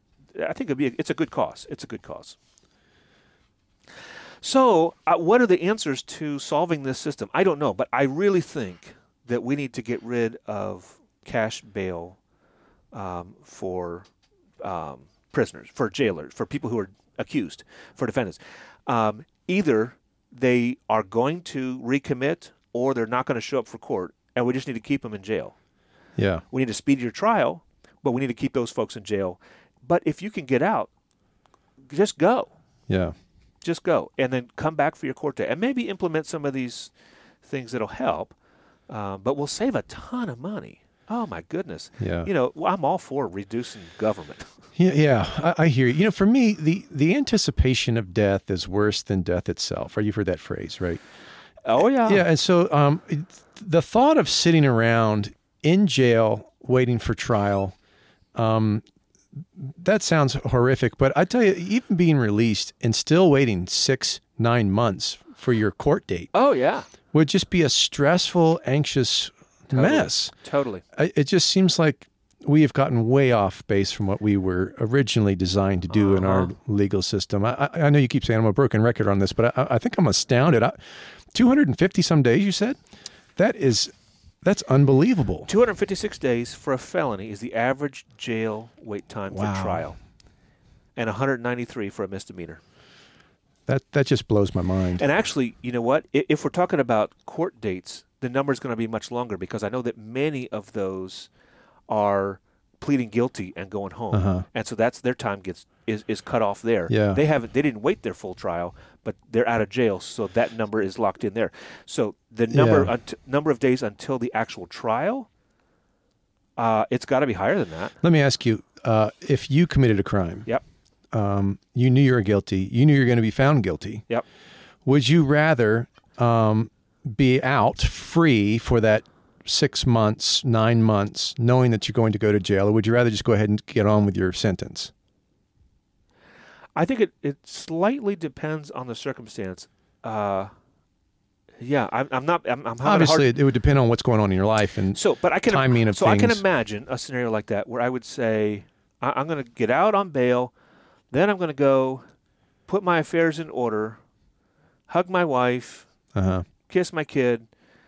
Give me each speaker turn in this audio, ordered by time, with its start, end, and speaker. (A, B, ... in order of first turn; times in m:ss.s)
0:00.3-0:02.4 A
0:04.4-0:12.2 A
0:12.9-0:14.1 A
0:14.6-0:25.5 A
0:26.2-0:26.4 B
0:26.5-0:30.9 A
0:31.9-0:32.5 A
0:32.9-0:33.1 B
0:33.6-0:36.9 A
0:37.4-0:38.3 A
0:38.9-0:44.5 A
0:42.0-0:42.3 B
0:44.8-0:51.0 B
0:51.6-0:52.2 A
0:52.0-0:57.7 B
0:58.3-0:58.8 B
0:59.4-1:06.3 B
1:06.3-1:06.9 A
1:07.1-1:10.3 B
1:09.7-1:10.8 A
1:10.9-1:20.8 B
1:15.9-1:16.5 A
1:21.3-1:22.8 B
1:23.4-1:23.9 B
1:24.4-1:25.5 B
1:25.5-1:30.0 A
1:29.3-1:29.8 B
1:31.0-1:32.6 A
1:33.7-1:35.0 B
1:35.0-1:41.3 A
1:41.9-1:55.3 A
1:44.1-1:44.4 B
1:46.9-1:47.2 B
1:52.5-1:52.9 B
1:56.6-1:58.0 A
1:58.0-2:00.5 B
2:01.1-2:04.0 B
2:04.8-2:14.9 B
2:16.8-2:20.5 A
2:21.6-2:23.3 A
2:22.8-2:26.4 B
2:24.9-2:30.5 A
2:31.1-2:32.0 A
2:32.7-2:34.0 A
2:34.9-2:35.9 A
2:36.1-2:36.4 B
2:36.7-2:37.5 A